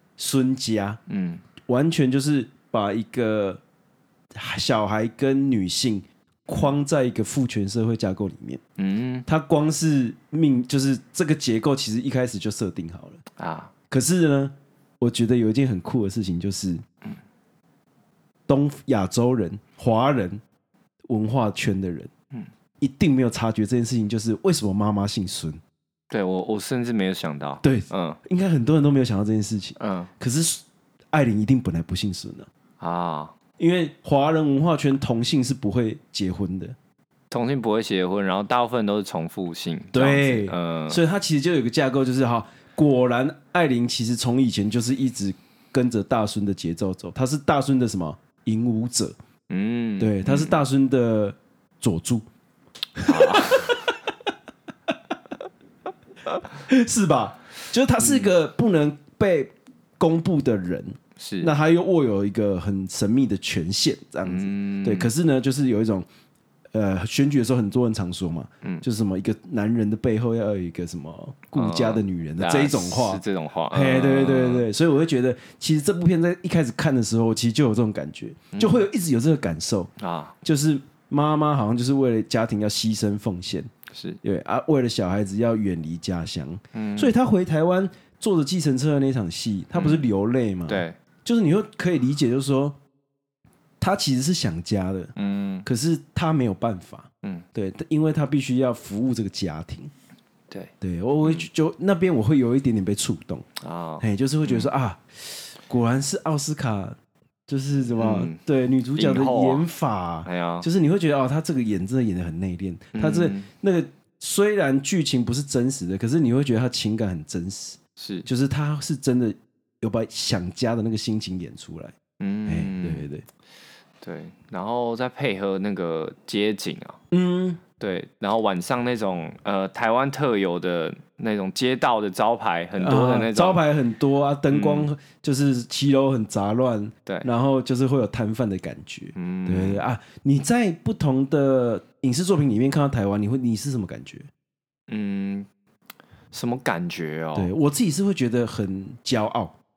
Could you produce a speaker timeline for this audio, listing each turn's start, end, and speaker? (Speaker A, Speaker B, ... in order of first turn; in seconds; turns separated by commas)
Speaker A: 0.2-1.0, Speaker B: 1.1-1.4, Speaker A: 1.7-3.6, Speaker A: 4.3-8.6, Speaker B: 8.8-9.3, Speaker A: 9.3-13.2, Speaker B: 13.4-13.7, Speaker A: 13.9-16.8, Speaker A: 18.5-20.4, Speaker A: 21.1-22.1, Speaker A: 22.8-25.6, Speaker B: 26.1-28.2, Speaker A: 27.6-32.5, Speaker B: 29.8-30.1, Speaker B: 32.8-33.3, Speaker A: 33.6-36.8, Speaker B: 37.3-41.0, Speaker A: 39.9-49.1, Speaker B: 49.5-50.6, Speaker A: 50.0-52.3, Speaker A: 53.0-54.0, Speaker B: 53.0-53.8, Speaker A: 56.6-66.1, Speaker B: 58.0-58.3, Speaker B: 61.2-61.5, Speaker B: 64.2-65.1, Speaker A: 66.7-79.9, Speaker B: 71.6-74.7, Speaker B: 78.5-78.8, Speaker B: 80.0-80.3, Speaker A: 80.4-83.7, Speaker B: 83.9-84.2, Speaker A: 84.2-92.8, Speaker B: 86.7-87.1, Speaker B: 89.7-90.0, Speaker B: 90.7-91.0, Speaker A: 93.8-95.1, Speaker B: 95.2-95.7, Speaker A: 95.7-99.9, Speaker A: 100.8-103.5, Speaker B: 103.6-104.7, Speaker A: 104.0-107.0, Speaker A: 107.5-121.9, Speaker B: 108.0-108.4, Speaker B: 109.0-109.7, Speaker B: 110.2-110.7, Speaker B: 112.9-113.5, Speaker B: 118.0-118.3, Speaker B: 122.2-123.1, Speaker A: 122.5-123.2, Speaker B: 124.0-127.0, Speaker A: 127.1-127.6, Speaker B: 127.8-133.6, Speaker A: 132.8-144.3, Speaker B: 134.5-134.9, Speaker B: 139.2-139.8, Speaker B: 144.9-145.5, Speaker B: 146.3-147.5, Speaker A: 147.3-149.6